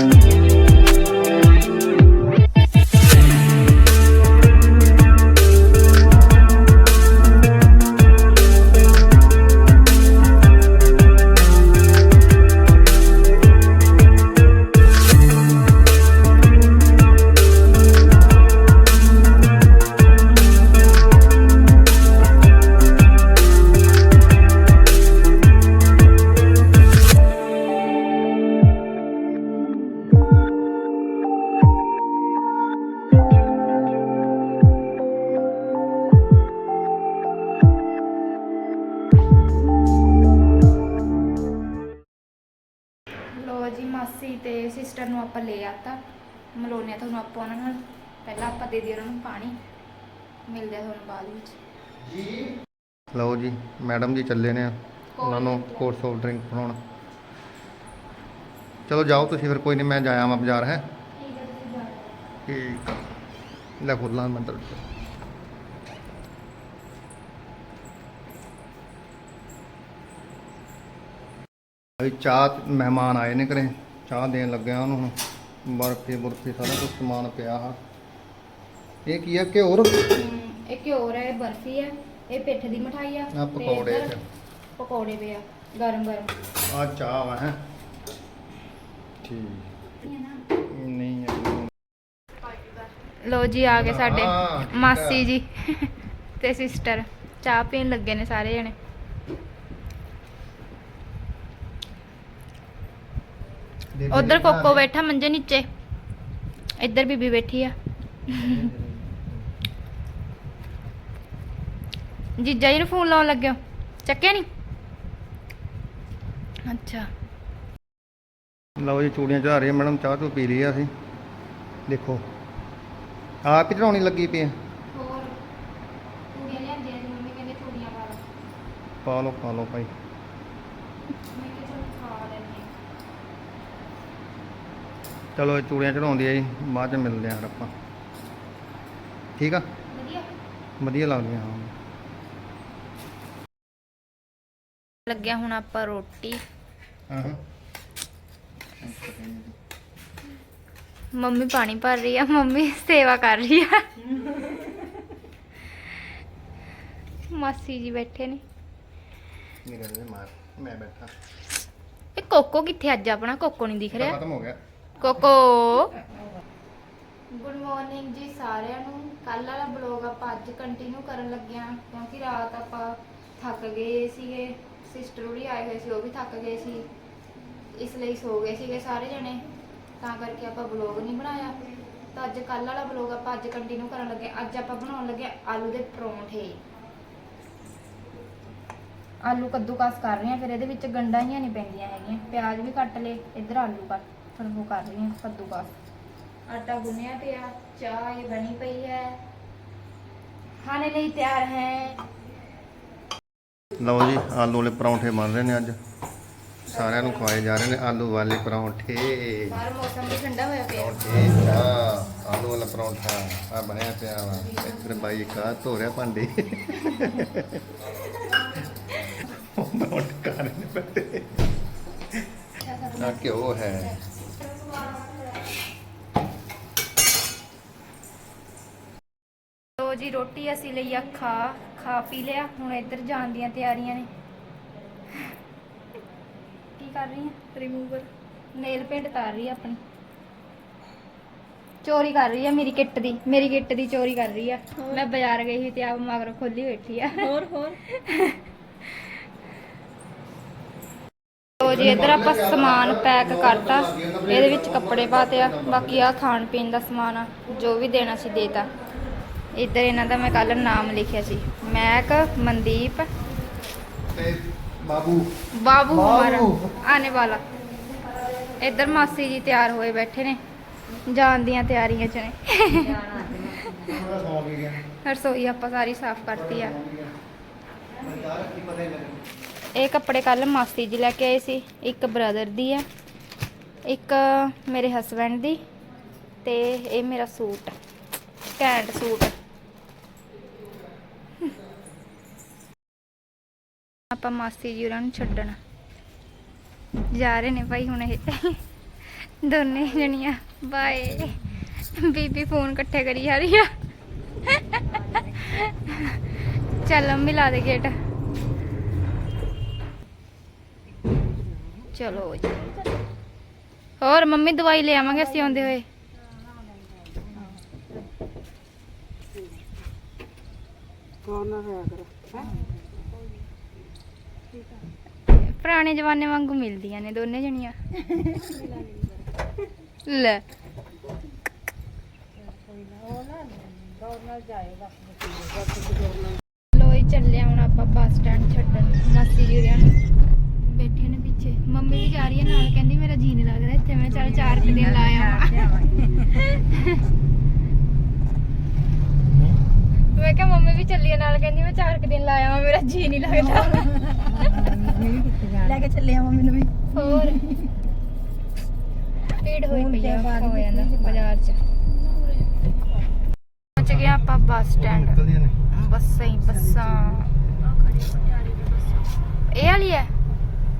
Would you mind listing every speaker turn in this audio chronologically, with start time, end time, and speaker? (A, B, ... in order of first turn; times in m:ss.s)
0:43.3-0:46.0 A
0:46.6-0:49.6 A
0:50.5-0:51.6 A
0:52.0-0:52.6 B
0:53.1-0:56.8 B
0:55.2-0:55.9 A
0:58.9-1:00.9 B
1:01.1-1:02.2 A
1:02.5-1:03.0 B
1:03.8-1:04.8 B
1:12.0-1:17.8 B
1:19.0-1:20.1 B
1:20.1-1:24.2 A
1:23.3-1:24.2 B
1:24.8-1:26.3 A
1:26.7-1:27.6 B
1:29.2-1:29.7 B
1:30.0-1:30.4 A
1:30.7-1:31.7 B
1:33.1-1:38.8 A
1:33.7-1:35.3 B
1:43.9-1:44.8 B
1:44.1-1:45.7 A
1:46.8-1:47.8 A
1:48.3-1:48.7 A
1:48.3-1:49.3 B
1:52.4-1:54.5 A
1:56.7-1:57.1 A
1:58.8-2:00.9 B
2:01.9-2:02.2 B
2:03.4-2:04.6 B
2:04.9-2:05.4 A
2:06.3-2:08.2 A
2:09.0-2:09.9 B
2:11.2-2:12.7 A
2:15.4-2:17.7 B
2:19.4-2:19.7 B
2:19.9-2:20.3 A
2:20.8-2:21.7 B
2:25.1-2:26.4 A
2:27.1-2:27.4 B
2:28.8-2:29.6 B
2:31.1-2:33.9 A
2:37.3-2:38.4 A
2:39.6-2:41.1 B
2:42.2-2:44.2 A
2:43.9-2:44.6 B
2:45.0-2:46.0 A
2:47.3-2:56.9 A
2:57.7-2:59.4 A
3:00.0-3:01.6 A
3:02.1-3:06.6 A
3:09.2-3:15.7 A
3:16.5-3:19.2 A
3:20.6-3:22.0 A
3:23.8-3:25.8 B
3:26.7-3:29.6 B
3:26.7-3:27.3 A
3:29.5-3:31.0 A
3:30.8-3:37.7 B
3:39.2-3:41.4 B
3:42.6-3:43.4 A
3:43.0-3:44.0 B
3:49.8-3:54.1 A
3:56.8-3:59.8 A
4:01.8-4:08.4 A
4:07.5-4:07.7 C
4:11.6-4:18.7 A
4:11.6-4:16.1 B
4:19.5-4:23.1 A
4:24.1-4:25.3 B
4:25.5-4:27.4 A
4:25.9-4:26.8 B
4:28.5-4:30.4 A
4:31.0-4:33.8 A
4:32.8-4:34.0 C
4:33.7-4:34.8 B
4:34.9-4:36.8 A
4:36.2-4:37.1 B
4:38.0-4:39.2 B
4:39.7-4:42.9 A
4:43.8-4:45.6 A
4:46.4-4:47.7 A
4:48.6-4:49.4 A
4:54.1-4:55.6 A
4:57.1-4:58.6 A
4:59.2-5:03.7 A
5:04.4-5:06.2 A
5:06.8-5:08.0 A
5:11.9-5:12.7 A
5:14.0-5:15.9 A
5:17.2-5:17.6 C
5:21.3-5:22.6 C
5:25.3-5:27.8 A
5:28.2-5:29.1 C
5:30.0-5:30.4 A
5:32.6-5:35.4 C
5:36.7-5:40.0 A
5:40.6-5:45.7 A
5:44.2-5:46.3 C
5:46.3-5:47.0 A
5:50.1-5:54.5 A
5:53.7-5:57.7 C
5:56.9-5:57.5 A
5:59.3-6:01.6 A
5:59.7-6:01.2 C
6:03.8-6:07.3 A
6:03.8-6:04.2 B
6:04.8-6:05.6 B
6:07.9-6:09.0 C
6:09.5-6:10.1 A